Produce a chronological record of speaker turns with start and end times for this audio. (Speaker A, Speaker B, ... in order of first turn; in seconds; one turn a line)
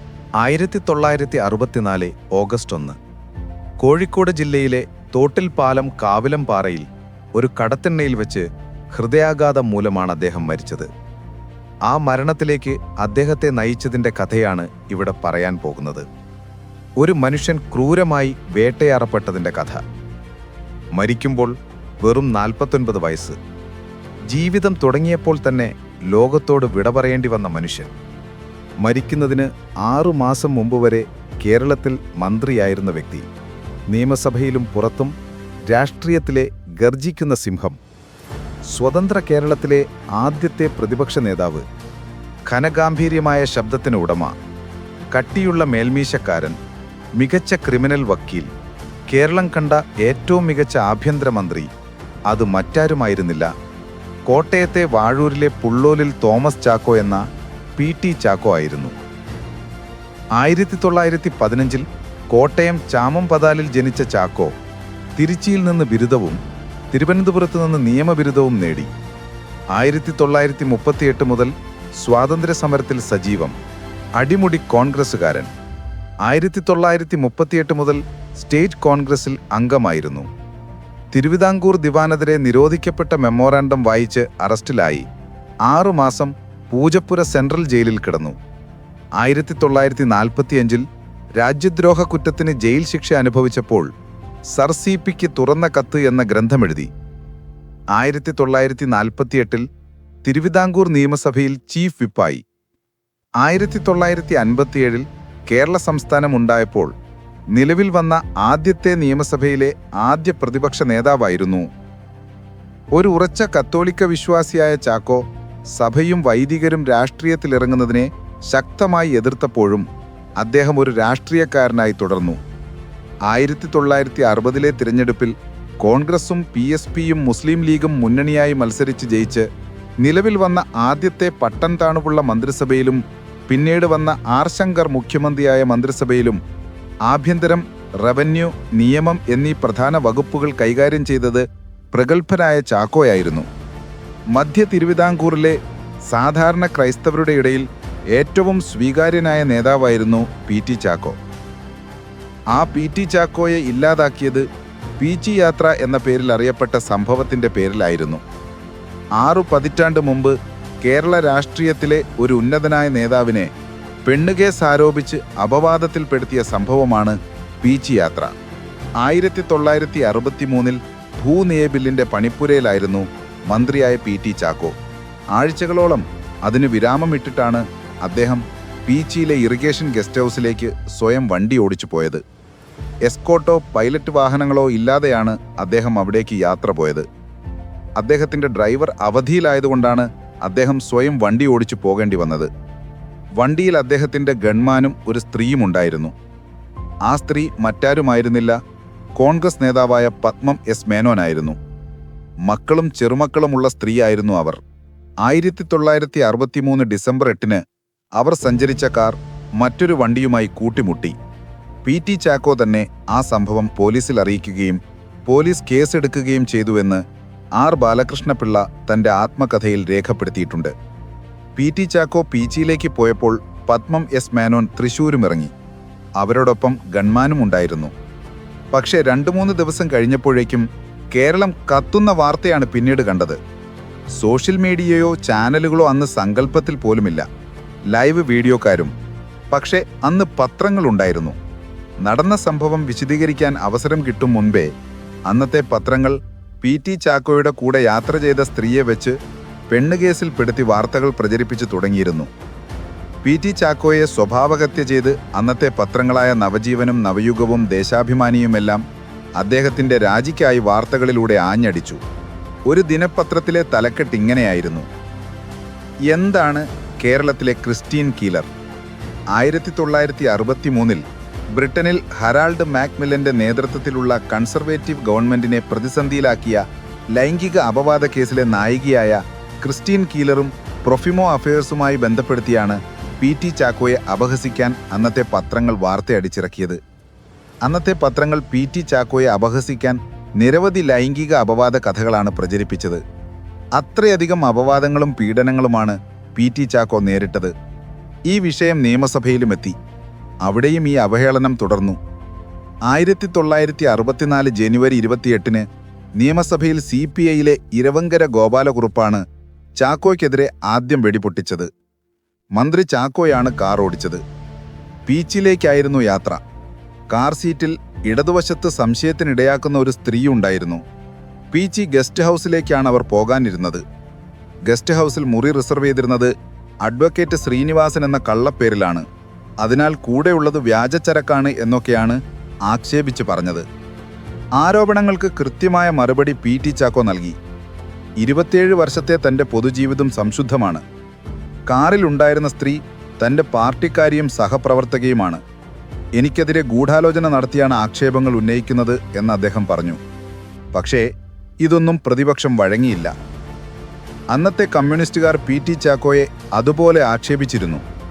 Speaker A: 0.4-3.0
Speaker A: 3.8-10.9
Speaker A: 11.9-16.1
Speaker A: 17.0-19.8
Speaker A: 20.9-23.4
Speaker A: 24.3-27.9
Speaker A: 28.8-33.2
Speaker A: 33.9-35.1
Speaker A: 35.7-37.8
Speaker A: 38.7-41.6
Speaker A: 42.5-44.4
Speaker A: 45.1-46.6
Speaker A: 47.1-48.5
Speaker A: 49.1-51.7
Speaker A: 52.3-53.5
Speaker A: 54.3-57.2
Speaker A: 57.8-58.9
Speaker A: 60.4-64.5
Speaker A: 65.2-66.4
Speaker A: 66.9-68.9
Speaker A: 69.7-73.5
Speaker A: 74.2-75.5
Speaker A: 76.2-80.3
Speaker A: 81.1-85.0
Speaker A: 85.7-88.4
Speaker A: 89.2-90.8
Speaker A: 91.3-93.9
Speaker A: 94.5-96.9
Speaker A: 97.9-99.7
Speaker A: 100.2-102.4
Speaker A: 103.4-106.9
Speaker A: 107.5-111.7
Speaker A: 112.9-119.9
Speaker A: 120.4-122.4
Speaker A: 123.3-129.5
Speaker A: 130.0-136.4
Speaker A: 137.1-143.4
Speaker A: 144.3-151.2
Speaker A: 152.5-154.4
Speaker A: 155.0-158.2
Speaker A: 159.2-163.5
Speaker A: 164.0-168.3
Speaker A: 169.0-174.7
Speaker A: 175.3-182.2
Speaker A: 183.0-187.1
Speaker A: 187.9-192.5
Speaker A: 193.4-196.1
Speaker A: 197.1-198.6
Speaker A: 199.1-201.6
Speaker A: 202.4-204.6
Speaker A: 205.2-207.6
Speaker A: 208.2-211.2
Speaker A: 211.8-217.0
Speaker A: 217.6-220.7
Speaker A: 221.6-225.5
Speaker A: 226.2-227.9
Speaker A: 228.7-233.4
Speaker A: 234.1-237.2
Speaker A: 237.9-238.9
Speaker A: 239.5-241.4
Speaker A: 242.0-244.7
Speaker A: 245.3-249.2
Speaker A: 249.7-252.3
Speaker A: 253.2-258.8
Speaker A: 259.4-262.0
Speaker A: 262.7-264.9
Speaker A: 266.1-268.5
Speaker A: 269.3-286.8
Speaker A: 287.6-293.0
Speaker A: 293.7-297.5
Speaker A: 298.2-299.8
Speaker A: 300.4-302.0
Speaker A: 302.9-305.6
Speaker A: 306.2-309.2
Speaker A: 309.8-311.7
Speaker A: 312.5-314.2
Speaker A: 315.1-316.4
Speaker A: 317.1-320.8
Speaker A: 321.5-323.8
Speaker A: 324.6-329.1
Speaker A: 329.6-333.6
Speaker A: 334.6-337.4
Speaker A: 338.2-340.8
Speaker A: 341.7-345.4
Speaker A: 346.1-350.0
Speaker A: 350.7-351.1
Speaker A: 351.6-353.1
Speaker A: 354.3-357.8